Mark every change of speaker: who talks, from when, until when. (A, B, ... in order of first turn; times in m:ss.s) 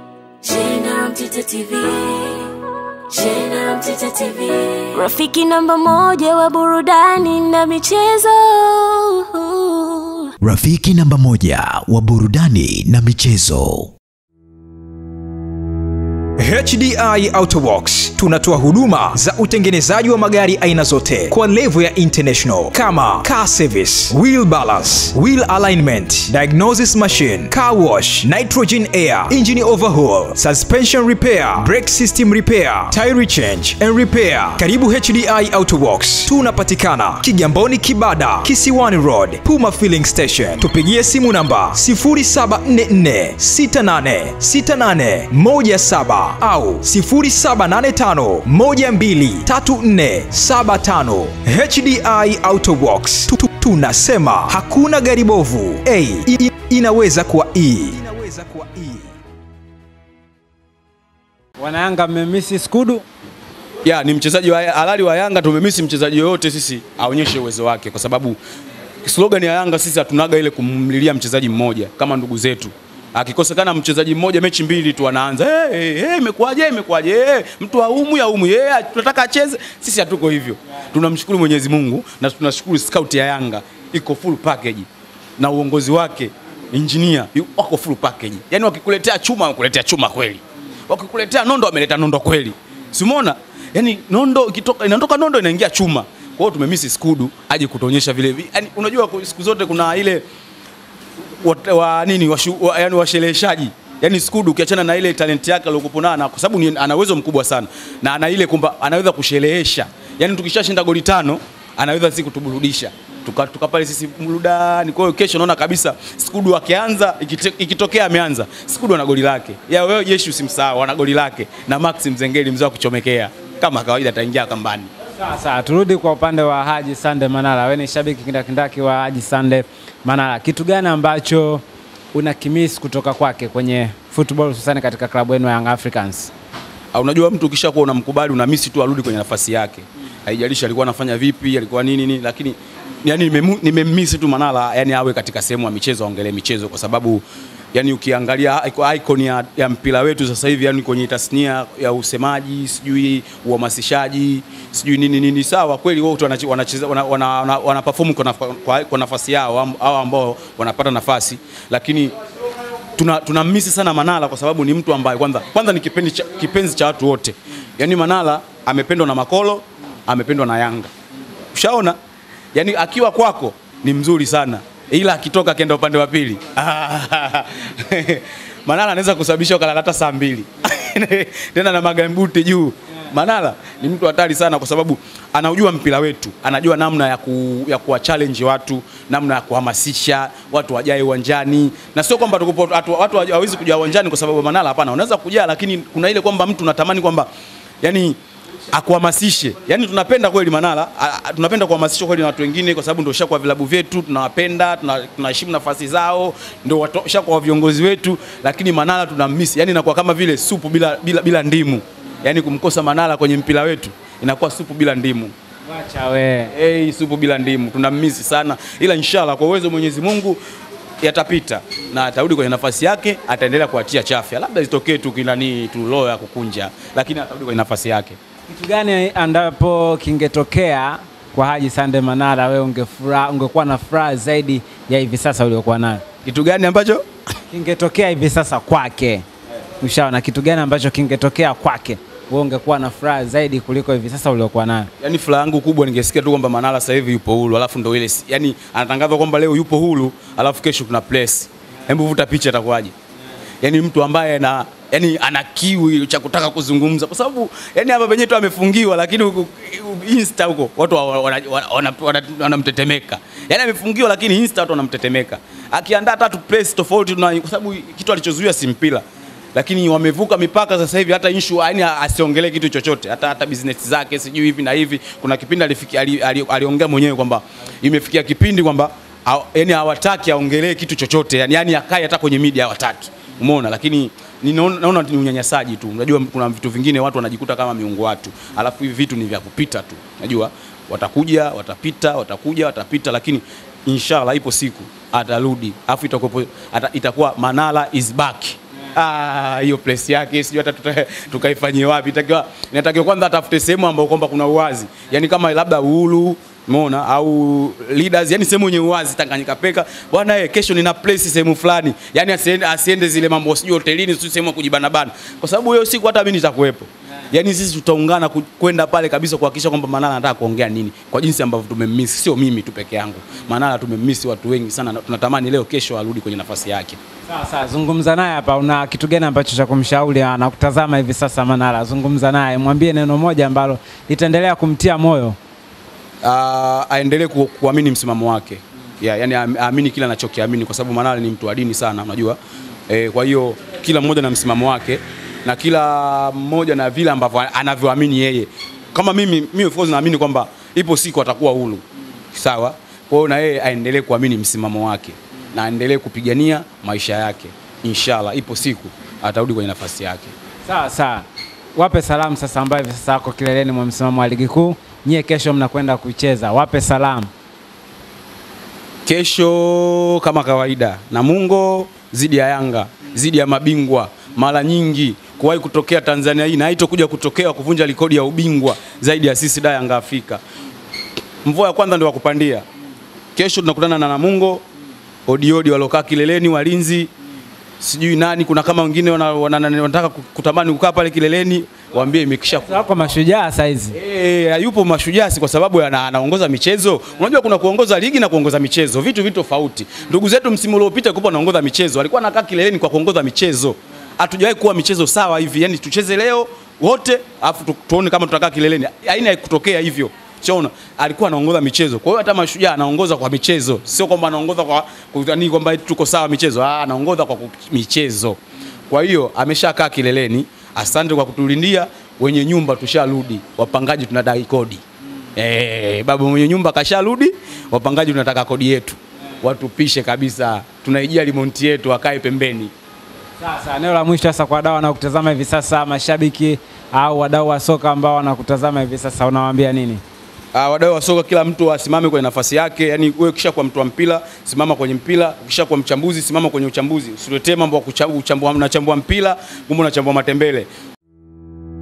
0:00.4-0:02.6 A
0:03.1-0:10.3 A
0:10.5-0:13.9 B
0:11.3-0:11.6 A
0:16.4-0:59.1 C
1:01.6-1:03.0 D
1:03.8-1:08.4 E
1:09.0-1:24.9 E
1:25.4-1:40.2 E
1:41.4-2:04.9 E
2:05.2-2:11.6 D
2:12.1-2:16.3 D
2:16.9-2:42.1 E
2:43.0-2:50.9 E
2:51.5-2:52.0 E
2:52.5-3:17.3 E
3:17.8-3:18.2 E
3:18.7-3:35.3 E
3:35.7-3:36.5 D
3:36.5-3:40.4 E
3:41.0-3:48.2 E
3:48.5-3:56.0 D
3:56.2-3:57.0 E
3:57.5-3:59.2 D
3:59.8-4:04.9 D
4:05.0-4:12.9 E
4:13.6-5:27.0 E
5:27.3-5:35.4 D
5:36.2-5:51.8 E
5:52.3-6:00.3 E
6:00.6-6:07.3 D
6:09.1-6:20.4 E
6:21.4-6:22.6 E
6:23.3-6:24.6 E
6:25.2-6:27.1 E
6:27.8-6:32.7 E
6:32.6-6:33.9 D
6:33.9-6:58.4 E
6:58.9-7:04.8 E
7:05.4-7:12.7 E
7:13.4-7:20.0 D
7:20.5-7:30.7 E